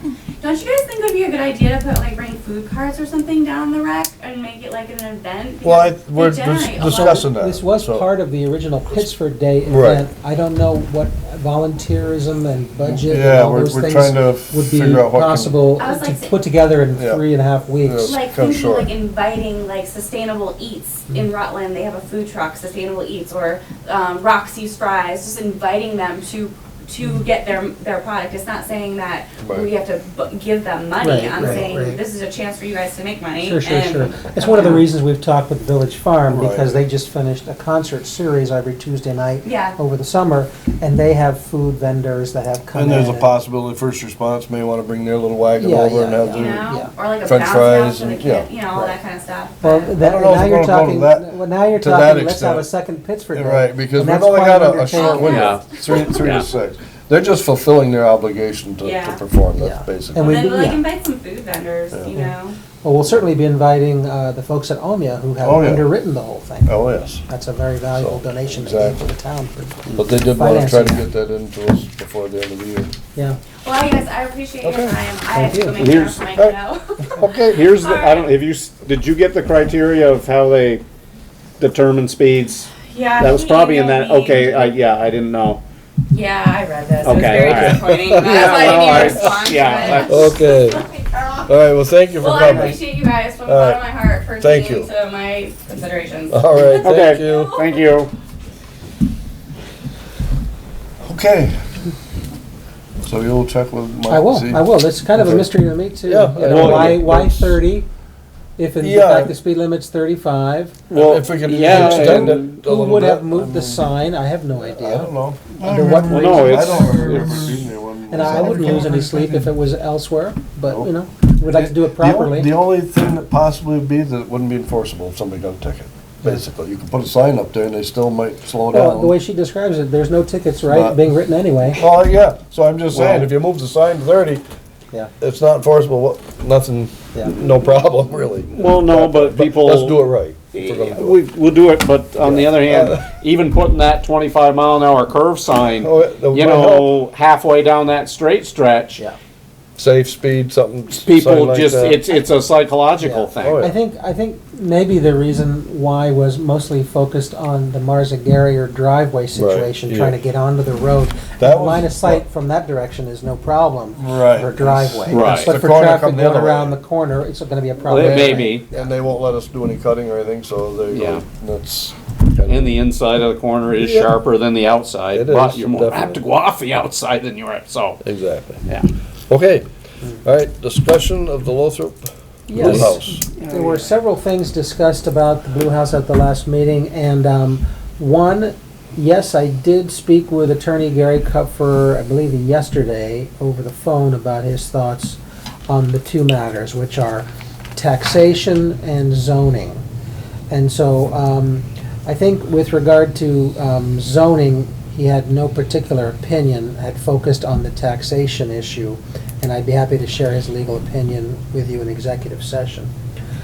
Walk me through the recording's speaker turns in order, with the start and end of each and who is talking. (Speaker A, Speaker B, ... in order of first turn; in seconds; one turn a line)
Speaker A: 0.4-7.3
Speaker B: 5.6-8.1
Speaker C: 6.9-18.1
Speaker B: 9.7-10.0
Speaker B: 12.8-15.6
Speaker A: 15.8-16.4
Speaker B: 16.9-17.2
Speaker B: 17.8-18.9
Speaker A: 18.0-34.9
Speaker B: 29.4-29.7
Speaker C: 31.0-32.0
Speaker B: 31.4-31.7
Speaker C: 33.4-43.3
Speaker B: 36.3-36.8
Speaker A: 39.4-39.8
Speaker B: 42.7-48.5
Speaker C: 45.5-46.9
Speaker A: 46.3-49.9
Speaker C: 49.6-55.4
Speaker B: 50.0-52.7
Speaker B: 53.3-60.4
Speaker A: 54.9-56.1
Speaker D: 55.2-56.5
Speaker A: 58.8-59.2
Speaker C: 59.6-60.8
Speaker A: 60.2-62.6
Speaker B: 61.9-62.2
Speaker C: 62.8-71.1
Speaker B: 65.4-65.9
Speaker B: 66.7-67.2
Speaker B: 67.9-69.1
Speaker B: 69.9-72.9
Speaker A: 73.6-78.3
Speaker B: 74.6-75.0
Speaker C: 75.3-75.8
Speaker D: 75.8-76.2
Speaker B: 76.3-77.6
Speaker D: 77.5-80.8
Speaker D: 81.6-85.6
Speaker A: 82.8-84.7
Speaker A: 86.1-91.5
Speaker D: 87.0-90.4
Speaker B: 87.2-90.8
Speaker B: 91.5-92.8
Speaker A: 92.1-97.9
Speaker B: 93.4-93.8
Speaker B: 94.3-94.9
Speaker B: 96.3-97.5
Speaker D: 96.8-98.1
Speaker B: 101.0-101.6
Speaker B: 103.0-105.5
Speaker C: 104.1-107.9
Speaker B: 106.0-107.6
Speaker D: 106.4-107.0
Speaker C: 108.6-110.8
Speaker B: 108.8-109.3
Speaker D: 110.9-112.6
Speaker B: 110.9-113.9
Speaker C: 111.6-117.2
Speaker B: 114.6-119.3
Speaker D: 116.1-117.7
Speaker C: 118.1-122.5
Speaker B: 121.5-129.2
Speaker C: 128.7-131.8
Speaker B: 130.7-131.0
Speaker B: 131.7-134.4
Speaker D: 132.9-133.3
Speaker B: 135.2-141.2
Speaker D: 138.5-149.0
Speaker B: 142.2-143.0
Speaker B: 145.7-146.9
Speaker B: 149.8-152.0
Speaker D: 150.9-153.6
Speaker C: 153.0-168.9
Speaker B: 153.4-153.7
Speaker B: 159.3-160.2
Speaker B: 161.4-162.2
Speaker B: 163.9-166.8
Speaker D: 165.1-165.6
Speaker D: 167.8-168.6
Speaker B: 168.0-172.8
Speaker D: 170.9-171.2
Speaker D: 172.5-178.0
Speaker B: 173.7-174.2
Speaker B: 175.1-176.2
Speaker B: 178.0-178.6
Speaker B: 179.3-179.6
Speaker B: 180.2-183.2
Speaker C: 182.5-199.8
Speaker D: 182.6-183.9
Speaker C: 200.5-212.9